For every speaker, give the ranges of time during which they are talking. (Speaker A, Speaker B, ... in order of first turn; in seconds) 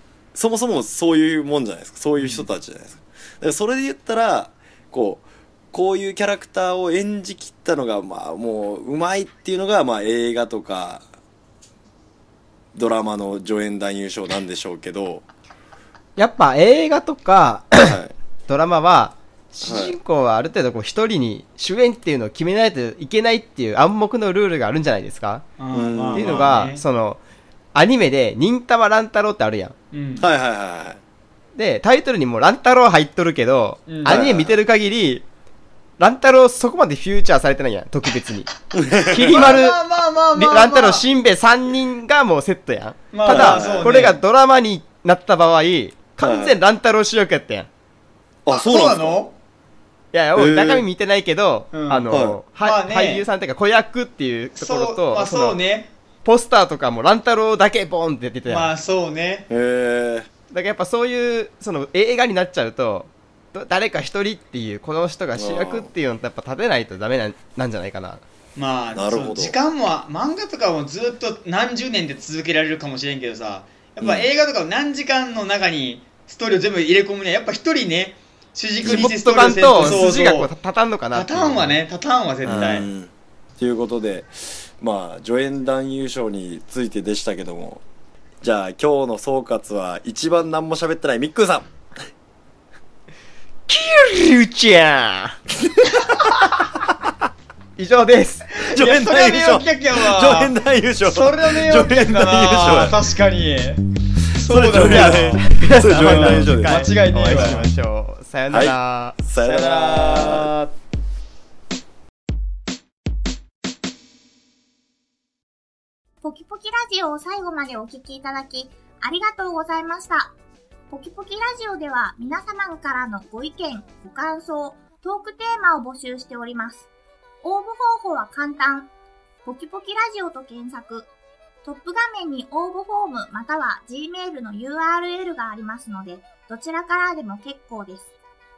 Speaker A: 0.3-11.0, 12.7-15.2, 17.8-18.1, 19.6-20.0, 25.7-26.5, 30.2-31.0, 34.0-34.6, 38.7-39.5, 43.2-44.0, 46.2-46.6, 48.4-49.2, 50.3-50.9, 52.1-52.4, 59.5-60.3, 65.3-65.9, 68.9-69.6, 74.0-74.3, 78.8-79.1, 82.4-87.8, 88.4-91.7, 98.7-103.0, 104.4-107.6, 108.5-110.5
Speaker B: 2.2-2.5, 25.6-26.8, 29.9-30.3, 33.9-34.3, 39.0-41.1, 43.1-44.2, 48.5-49.3, 51.7-53.3, 54.5-55.9, 58.4-59.5, 68.5-80.5, 81.1-82.9, 98.5-105.4, 106.0-107.7, 109.3-110.5
Speaker C: 16.1-25.5, 26.1-27.2, 27.7-29.7, 31.6-35.2, 36.0-38.5, 39.2-39.8, 40.3-47.7, 50.1-55.6, 56.2-58.7, 60.5-68.2, 78.9-81.8, 82.5-82.7, 93.7-95.4, 97.8-98.5, 104.8-109.2
Speaker D: 116.2-120.3, 120.9-126.9, 127.4-128.9, 129.4-131.1, 131.6-138.1